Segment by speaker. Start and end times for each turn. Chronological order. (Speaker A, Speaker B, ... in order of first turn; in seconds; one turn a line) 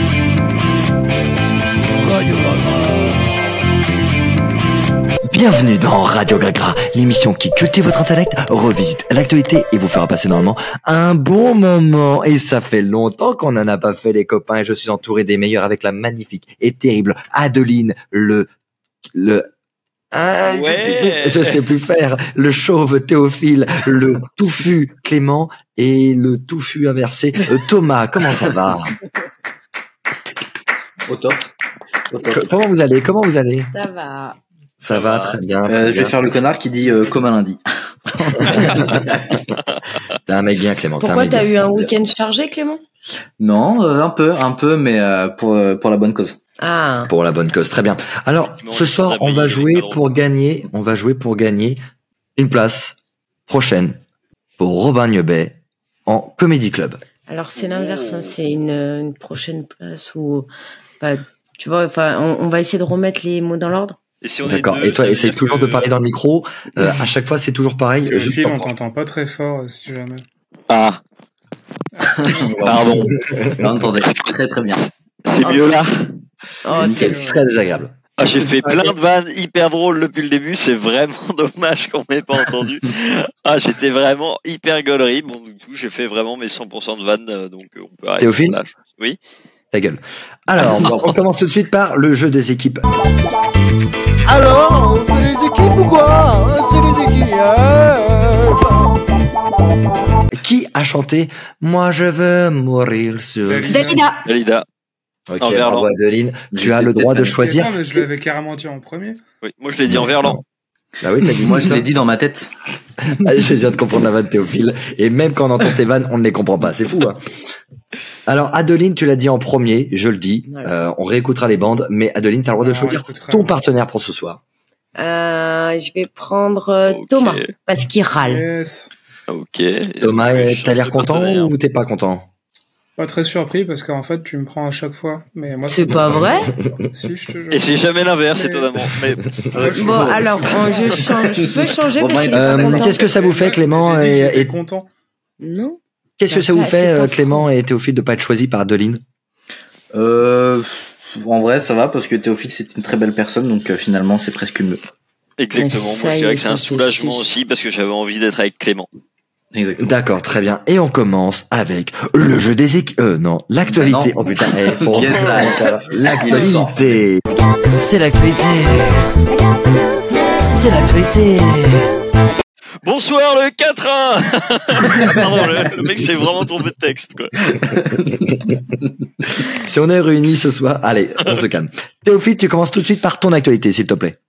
Speaker A: 2.0-3.3
Speaker A: 5.3-18.5
Speaker A: 19.1-19.5
Speaker A: 20.1-29.0
Speaker B: 20.4-21.6
Speaker C: 31.1-31.5
Speaker C: 32.1-32.5
Speaker A: 32.3-33.7
Speaker D: 33.7-34.4
Speaker A: 34.8-36.3
Speaker B: 34.9-35.4
Speaker C: 35.7-39.3
Speaker A: 38.4-39.4
Speaker B: 38.5-38.8
Speaker A: 40.3-41.9
Speaker D: 41.0-42.8
Speaker C: 43.4-46.4
Speaker D: 46.6-47.1
Speaker A: 47.1-51.8
Speaker B: 48.6-50.0
Speaker A: 52.4-53.0
Speaker A: 53.5-54.0
Speaker A: 54.6-57.0
Speaker D: 57.3-60.5
Speaker B: 57.6-58.3
Speaker D: 61.0-64.0
Speaker B: 64.2-65.9
Speaker A: 64.5-68.7
Speaker E: 68.0-70.2
Speaker B: 70.7-71.0
Speaker E: 71.9-72.3
Speaker C: 72.0-74.8
Speaker A: 72.7-73.8
Speaker B: 74.0-76.1
Speaker D: 75.4-75.8
Speaker D: 76.6-77.2
Speaker E: 76.7-77.4
Speaker A: 76.7-78.0
Speaker B: 78.2-89.2
Speaker A: 88.2-88.6
Speaker A: 89.7-92.8
Speaker C: 90.6-91.2
Speaker A: 94.2-99.0
Speaker A: 100.3-104.0
Speaker E: 103.5-104.0
Speaker D: 103.7-104.3
Speaker B: 104.2-104.7
Speaker A: 105.3-108.1
Speaker B: 105.4-105.9
Speaker C: 106.5-107.4
Speaker E: 107.4-109.2
Speaker B: 109.4-110.4
Speaker A: 109.9-110.4
Speaker A: 111.0-111.9
Speaker C: 111.4-112.5
Speaker A: 113.1-117.3
Speaker A: 118.3-124.4
Speaker D: 120.5-120.7
Speaker E: 122.6-123.5
Speaker D: 125.0-128.4
Speaker B: 126.9-127.5
Speaker E: 128.2-128.9
Speaker B: 129.3-131.5
Speaker A: 130.0-132.3
Speaker E: 133.0-138.8
Speaker D: 135.7-136.5
Speaker A: 136.1-136.9
Speaker B: 137.5-139.3
Speaker C: 139.5-143.1
Speaker E: 139.6-141.1
Speaker D: 139.7-143.1
Speaker A: 142.3-144.5
Speaker E: 143.0-144.9
Speaker D: 145.4-147.4
Speaker A: 146.2-149.0
Speaker C: 149.9-154.8
Speaker B: 155.4-158.9
Speaker D: 155.5-157.3
Speaker C: 159.5-159.9
Speaker A: 159.8-169.2
Speaker C: 163.7-166.8
Speaker A: 170.3-171.9
Speaker B: 172.8-177.8
Speaker A: 178.1-178.6
Speaker A: 179.4-184.2